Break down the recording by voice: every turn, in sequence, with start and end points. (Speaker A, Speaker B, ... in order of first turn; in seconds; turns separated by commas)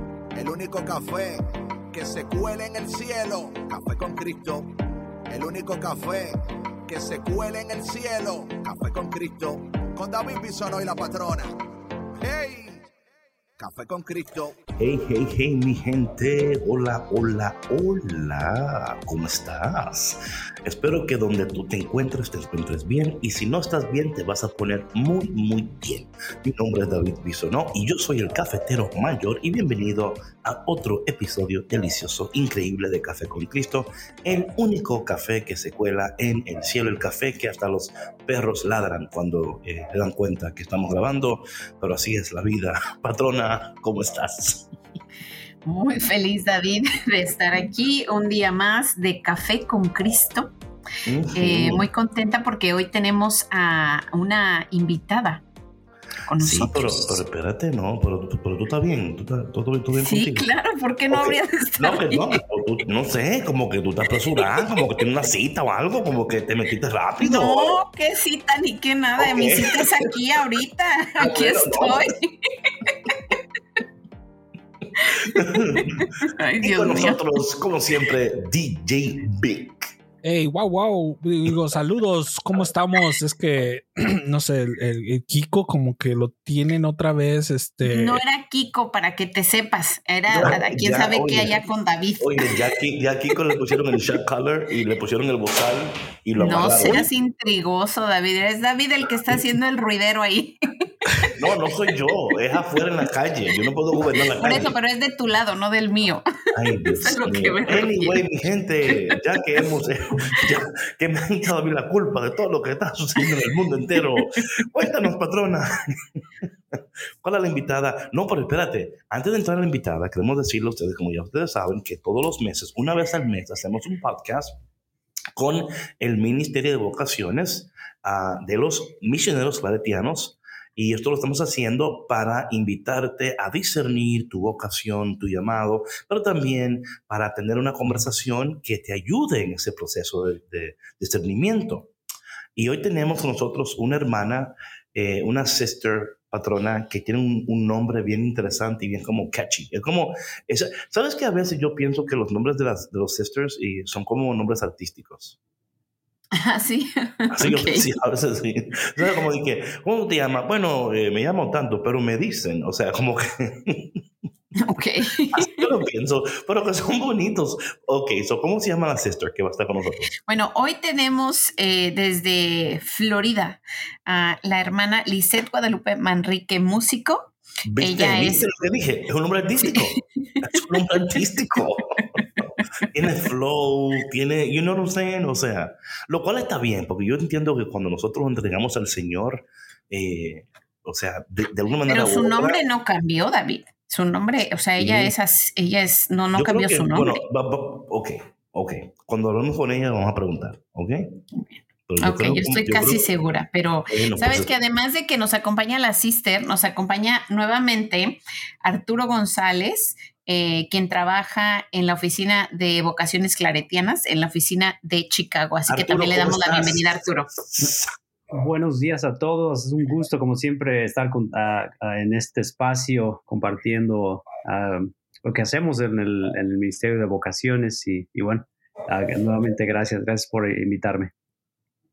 Speaker A: 0.3-4.7, Speaker A: 5.3-6.4, Speaker A: 6.9-11.5, Speaker A: 12.2-12.9, Speaker A: 13.6-14.6, Speaker B: 14.8-44.7, Speaker C: 45.6-50.5, Speaker B: 51.0-51.9, Speaker C: 51.4-55.5, Speaker C: 56.3-57.2, Speaker B: 56.4-60.5, Speaker C: 60.0-62.4, Speaker B: 61.1-67.8, Speaker C: 64.3-64.8, Speaker C: 67.2-73.0, Speaker B: 69.2-70.1, Speaker B: 71.2-72.1, Speaker C: 75.0-77.2, Speaker B: 75.2-79.9, Speaker D: 80.2-88.2, Speaker C: 87.8-92.7, Speaker B: 90.3-91.5, Speaker B: 92.2-97.1, Speaker C: 96.4-101.3, Speaker B: 101.2-104.8, Speaker C: 104.4-108.2, Speaker B: 106.5-116.2, Speaker C: 108.9-109.2, Speaker C: 114.1-114.4, Speaker B: 117.2-124.6, Speaker B: 125.3-141.9, Speaker B: 142.6-155.4, Speaker C: 156.3-157.9, Speaker B: 157.3-164.0, Speaker C: 164.6-165.7, Speaker B: 165.3-170.1, Speaker C: 170.3-178.5, Speaker B: 177.7-192.6, Speaker C: 179.6-182.0, Speaker C: 191.9-197.2, Speaker B: 194.8-195.1, Speaker B: 196.3-201.2, Speaker C: 201.3-217.3, Speaker B: 201.9-203.1, Speaker B: 203.9-204.5, Speaker B: 215.7-217.9, Speaker E: 218.3-231.1